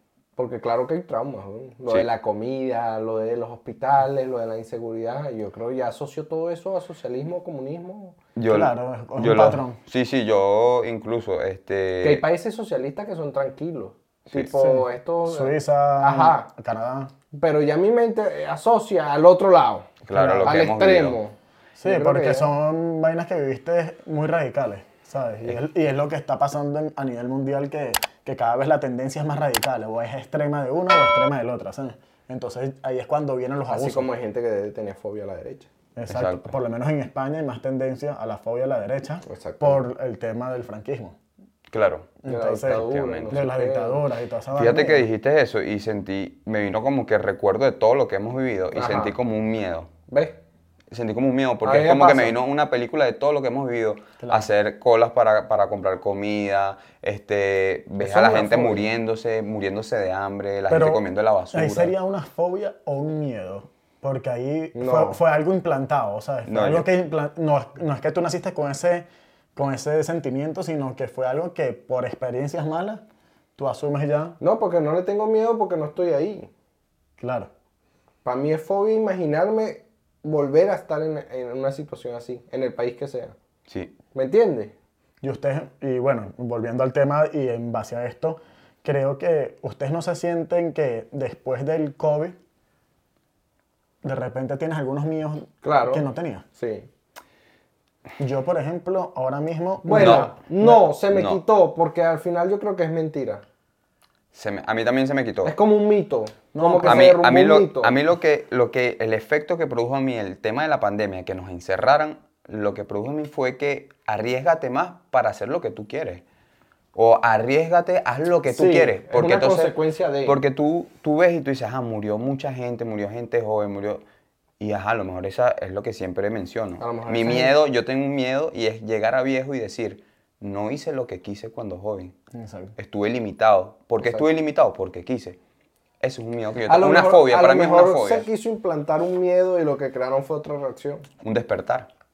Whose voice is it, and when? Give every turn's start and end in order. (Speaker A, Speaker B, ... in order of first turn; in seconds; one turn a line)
Speaker A: 0.4-8.2
Speaker B: 8.3-12.2
Speaker C: 8.5-9.8
Speaker A: 12.0-16.5
Speaker C: 14.5-17.1
Speaker A: 17.3-22.5
Speaker B: 20.0-21.2
Speaker C: 20.1-20.6
Speaker C: 21.8-34.1
Speaker A: 33.7-35.7
Speaker C: 36.0-41.1
Speaker B: 36.1-36.5
Speaker A: 39.2-39.8
Speaker B: 41.7-43.4
Speaker C: 42.2-45.1
Speaker A: 42.2-44.0
Speaker B: 44.5-49.9
Speaker A: 48.7-49.1
Speaker A: 50.1-50.4
Speaker B: 50.9-61.9
Speaker A: 51.6-52.3
Speaker C: 54.2-54.5
Speaker A: 58.0-58.8
Speaker C: 60.7-73.0
Speaker A: 64.7-65.2
Speaker B: 66.5-66.9
Speaker C: 73.6-74.4
Speaker A: 74.4-76.5
Speaker C: 77.2-77.5
Speaker A: 78.2-83.3
Speaker B: 83.7-83.9
Speaker A: 84.1-84.7
Speaker C: 85.2-92.4
Speaker C: 94.0-96.4
Speaker A: 95.6-96.9
Speaker C: 98.2-100.9
Speaker A: 99.8-103.4
Speaker B: 99.9-100.3
Speaker B: 101.1-101.4
Speaker B: 104.3-105.5
Speaker A: 105.4-107.9
Speaker C: 106.5-107.2
Speaker B: 106.8-116.2
Speaker B: 116.9-124.0
Speaker A: 118.5-120.4
Speaker B: 124.6-132.2
Speaker A: 126.8-127.5
Speaker C: 132.3-132.7
Speaker B: 132.8-135.4
Speaker A: 134.0-134.2
Speaker B: 136.0-138.3
Speaker A: 136.7-141.1
Speaker B: 141.2-141.9